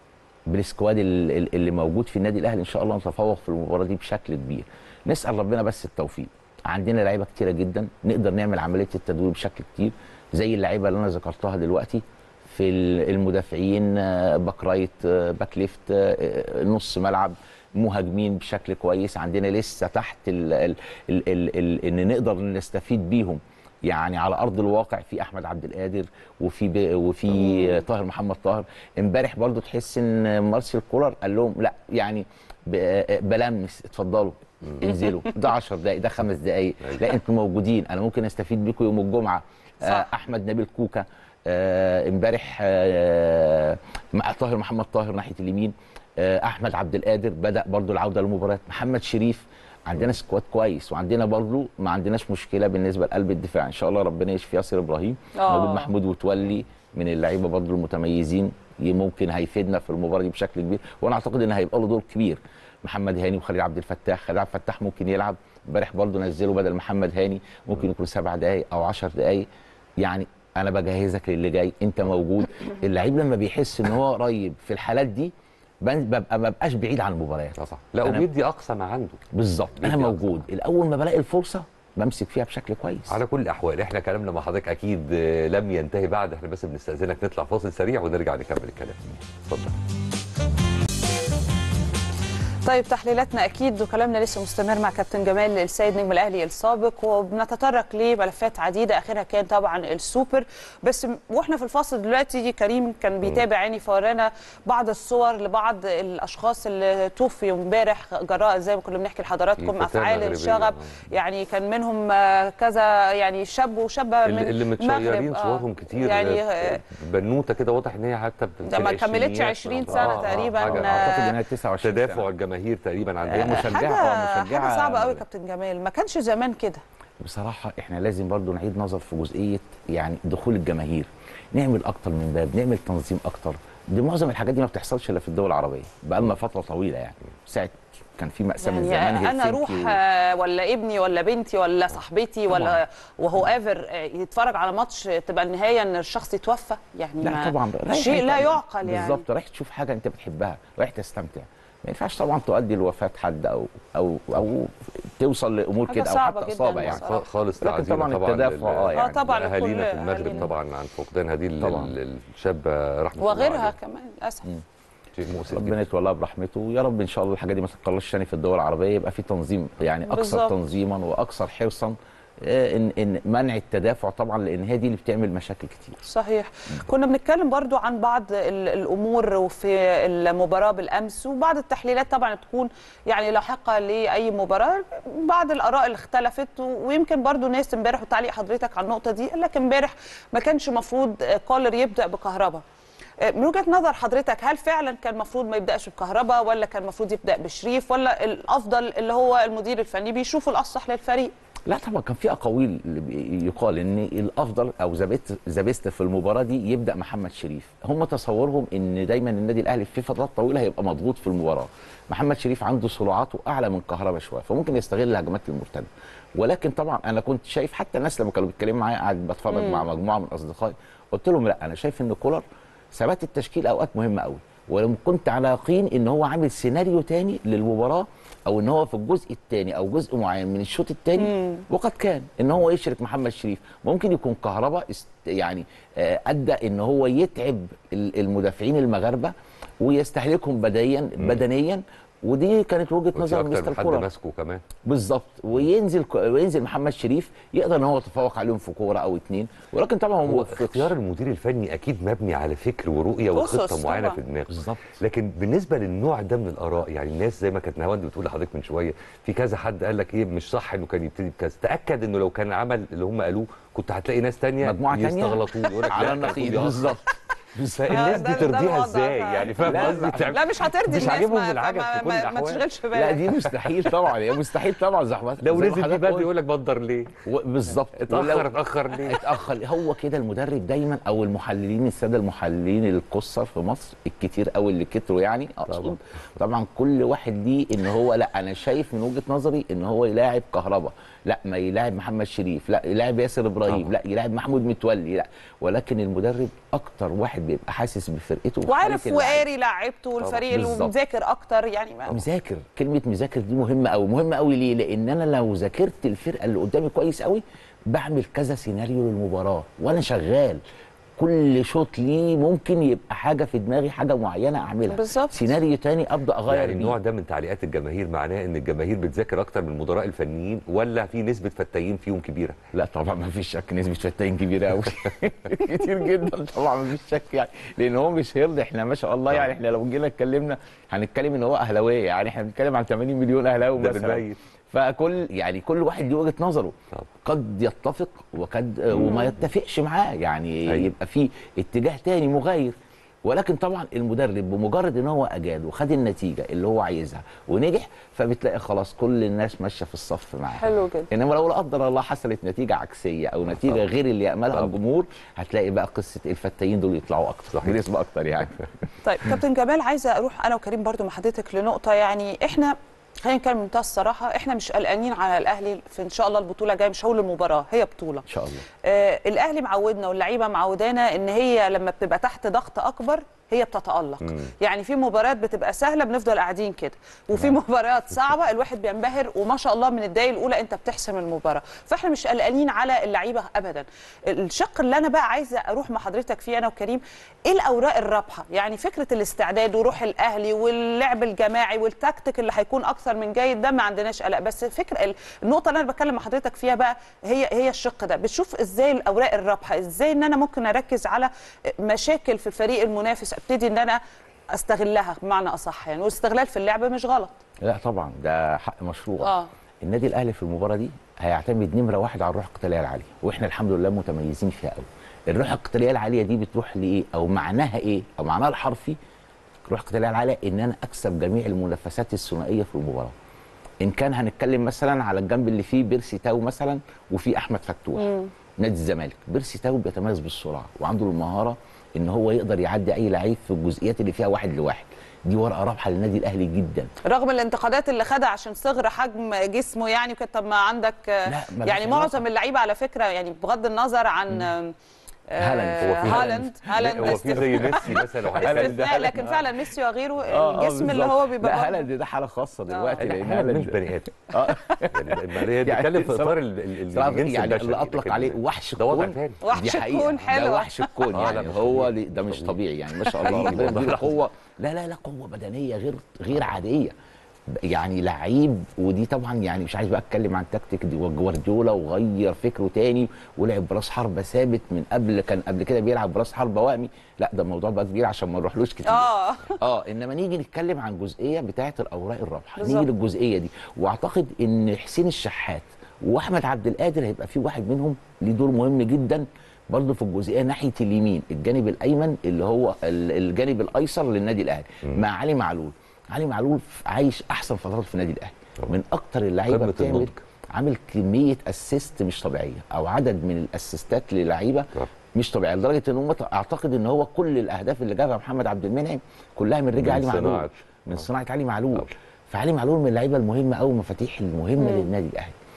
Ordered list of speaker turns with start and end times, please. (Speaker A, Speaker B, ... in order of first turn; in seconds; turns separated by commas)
Speaker A: 0.5-69.5, Speaker B: 39.8-40.1, Speaker B: 55.3-55.9, Speaker A: 70.0-75.3, Speaker A: 75.8-78.3, Speaker C: 77.6-79.2, Speaker A: 79.3-83.2, Speaker C: 79.8-80.4, Speaker C: 83.1-89.7, Speaker B: 92.6-116.8, Speaker C: 109.6-110.9, Speaker C: 114.2-123.9, Speaker B: 118.7-121.3, Speaker A: 119.9-122.3, Speaker A: 123.2-125.2, Speaker B: 123.3-126.8, Speaker A: 127.2-140.0, Speaker B: 138.6-149.2, Speaker A: 142.5-142.8, Speaker A: 147.2-157.0, Speaker B: 155.9-157.2, Speaker C: 156.8-163.7, Speaker A: 157.6-159.3, Speaker B: 158.9-160.5, Speaker A: 161.6-161.9, Speaker B: 163.2-164.5, Speaker C: 165.1-165.8, Speaker A: 165.4-176.0, Speaker B: 170.1-170.6, Speaker B: 176.0-192.6, Speaker B: 193.2-201.3, Speaker A: 201.7-244.1, Speaker B: 219.5-219.8, Speaker B: 231.2-231.6, Speaker C: 243.1-244.6, Speaker A: 244.8-250.9, Speaker C: 250.2-267.0, Speaker B: 253.3-254.2, Speaker A: 254.5-254.8, Speaker A: 264.6-268.6, Speaker C: 267.6-272.6, Speaker B: 267.9-273.3, Speaker A: 269.6-271.3, Speaker A: 272.9-276.3, Speaker C: 273.4-274.1, Speaker C: 275.4-277.1, Speaker A: 277.2-299.4, Speaker C: 278.1-279.4, Speaker C: 285.7-285.9, Speaker B: 298.6-302.2, Speaker A: 300.5-300.9, Speaker A: 302.1-310.6, Speaker A: 311.2-316.9, Speaker B: 314.9-315.5, Speaker C: 316.5-322.6, Speaker A: 322.7-358.7, Speaker C: 333.8-334.4, Speaker B: 350.6-351.1, Speaker B: 359.0-368.2, Speaker A: 368.3-368.6, Speaker B: 368.8-404.0, Speaker B: 404.5-407.4, Speaker A: 407.6-419.0, Speaker B: 409.2-409.5, Speaker A: 419.6-423.1, Speaker A: 423.8-436.9, Speaker B: 427.9-428.3, Speaker B: 437.0-444.7, Speaker A: 441.2-442.2, Speaker B: 445.3-451.9, Speaker A: 445.4-449.5, Speaker C: 445.8-449.1, Speaker A: 450.3-466.9, Speaker B: 452.7-453.0, Speaker C: 453.0-459.4, Speaker B: 459.4-461.3, Speaker C: 461.1-462.6, Speaker B: 463.0-463.4, Speaker C: 463.1-464.2, Speaker A: 467.5-515.4, Speaker B: 478.8-479.6, Speaker B: 482.6-482.9, Speaker C: 499.5-500.2, Speaker C: 509.8-511.0, Speaker B: 514.6-514.9